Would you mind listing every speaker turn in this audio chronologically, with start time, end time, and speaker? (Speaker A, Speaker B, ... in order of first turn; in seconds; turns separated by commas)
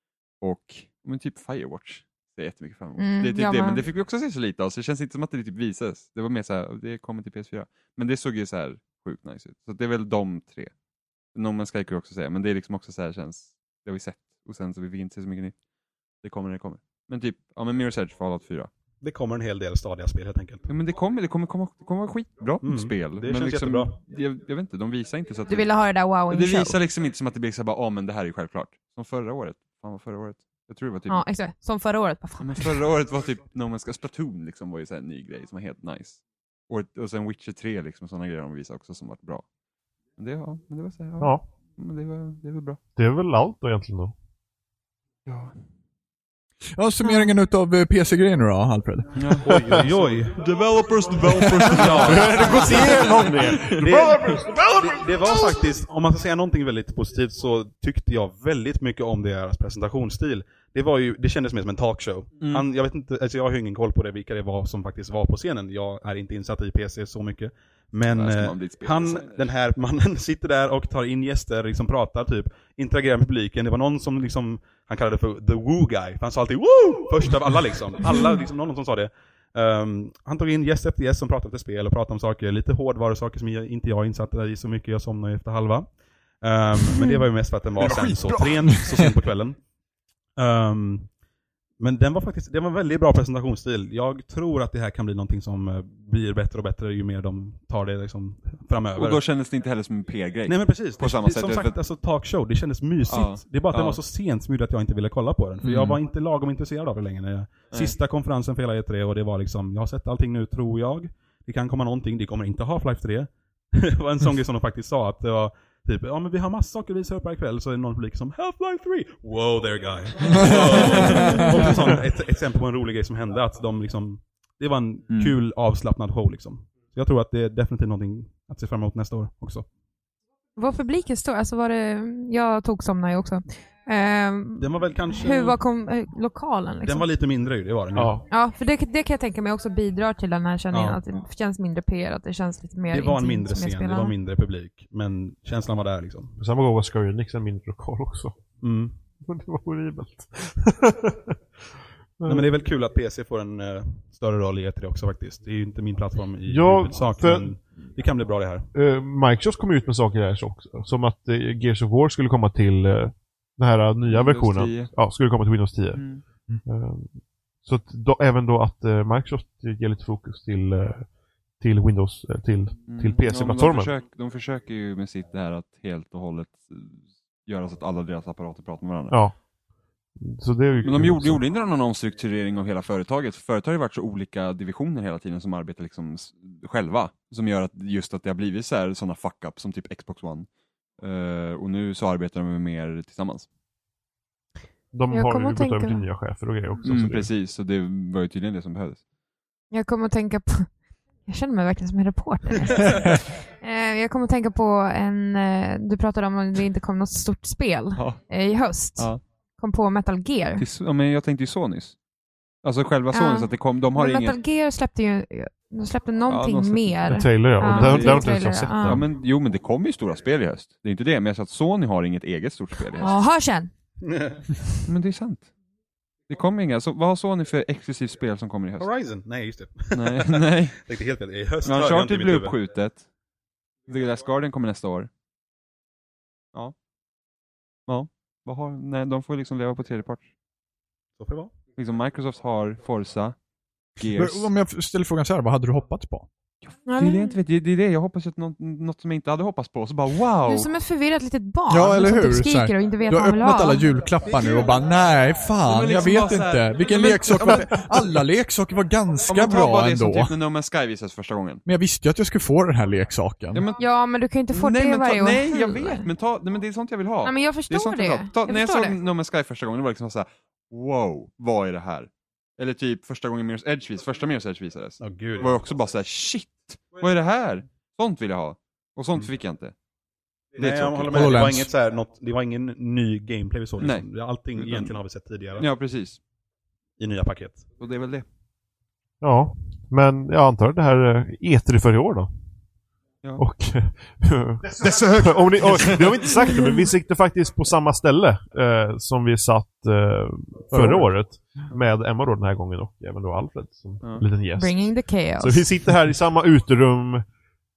Speaker A: 0.4-10.7, Speaker B: 3.0-3.8, Speaker A: 11.3-15.6, Speaker A: 16.2-18.7, Speaker C: 19.0-20.7, Speaker A: 20.7-31.2, Speaker C: 22.6-23.9, Speaker B: 25.5-26.8, Speaker B: 31.1-32.8, Speaker A: 32.4-39.5, Speaker A: 40.2-42.8, Speaker D: 43.0-44.1, Speaker A: 45.3-45.6, Speaker E: 46.8-49.3, Speaker B: 47.0-47.3, Speaker A: 49.2-53.9, Speaker C: 49.4-50.4, Speaker D: 49.5-49.9, Speaker E: 51.3-51.9, Speaker C: 51.6-89.6, Speaker D: 51.9-55.6, Speaker A: 62.4-62.7, Speaker A: 68.1-69.5, Speaker E: 87.8-89.2, Speaker C: 90.4-91.1, Speaker C: 91.8-99.2, Speaker A: 99.0-101.7, Speaker C: 100.5-129.7, Speaker A: 103.1-104.0, Speaker E: 105.6-106.0, Speaker A: 120.4-121.4, Speaker E: 121.1-121.7, Speaker B: 121.2-121.5, Speaker B: 130.6-137.1, Speaker C: 134.6-135.6, Speaker C: 136.8-138.2, Speaker D: 137.9-138.3, Speaker B: 138.3-144.1, Speaker C: 140.7-141.0, Speaker C: 142.9-146.3, Speaker D: 146.4-148.4, Speaker C: 148.6-148.9, Speaker D: 149.2-151.4, Speaker D: 152.2-152.5, Speaker C: 152.2-158.7, Speaker D: 156.5-157.6, Speaker D: 158.7-173.9, Speaker A: 164.1-165.0, Speaker A: 165.9-166.2, Speaker A: 172.9-179.2, Speaker D: 179.1-179.3, Speaker D: 180.2-181.4, Speaker A: 180.8-193.5, Speaker D: 194.9-197.3, Speaker B: 195.1-196.0, Speaker A: 196.8-199.0, Speaker B: 199.7-210.6, Speaker A: 207.9-209.2, Speaker A: 210.6-212.0, Speaker A: 212.6-214.4, Speaker B: 213.1-219.0, Speaker A: 216.3-223.2, Speaker D: 217.1-219.1, Speaker B: 223.0-223.7, Speaker C: 224.0-224.5, Speaker A: 224.8-225.5, Speaker A: 226.3-228.9, Speaker C: 228.8-232.6, Speaker A: 229.9-230.8, Speaker A: 231.6-233.1, Speaker A: 233.9-235.1, Speaker A: 237.9-240.2, Speaker C: 241.2-241.5, Speaker A: 241.8-243.4, Speaker A: 243.9-244.5, Speaker E: 244.0-246.3, Speaker A: 246.6-250.7, Speaker B: 246.9-247.4, Speaker B: 250.5-253.9, Speaker E: 251.7-260.4, Speaker A: 255.7-258.2, Speaker A: 259.3-261.6, Speaker E: 261.6-263.6, Speaker A: 263.5-279.7, Speaker B: 263.8-266.1, Speaker B: 267.2-269.0, Speaker C: 275.0-275.6, Speaker A: 280.6-281.4, Speaker C: 280.6-285.7, Speaker E: 281.1-281.7, Speaker A: 283.8-285.0, Speaker A: 285.6-286.2, Speaker C: 287.0-287.7, Speaker A: 287.8-288.3, Speaker D: 289.2-292.3, Speaker D: 293.4-307.2, Speaker E: 294.8-295.3, Speaker A: 294.8-296.1, Speaker E: 300.7-301.2, Speaker B: 304.5-305.7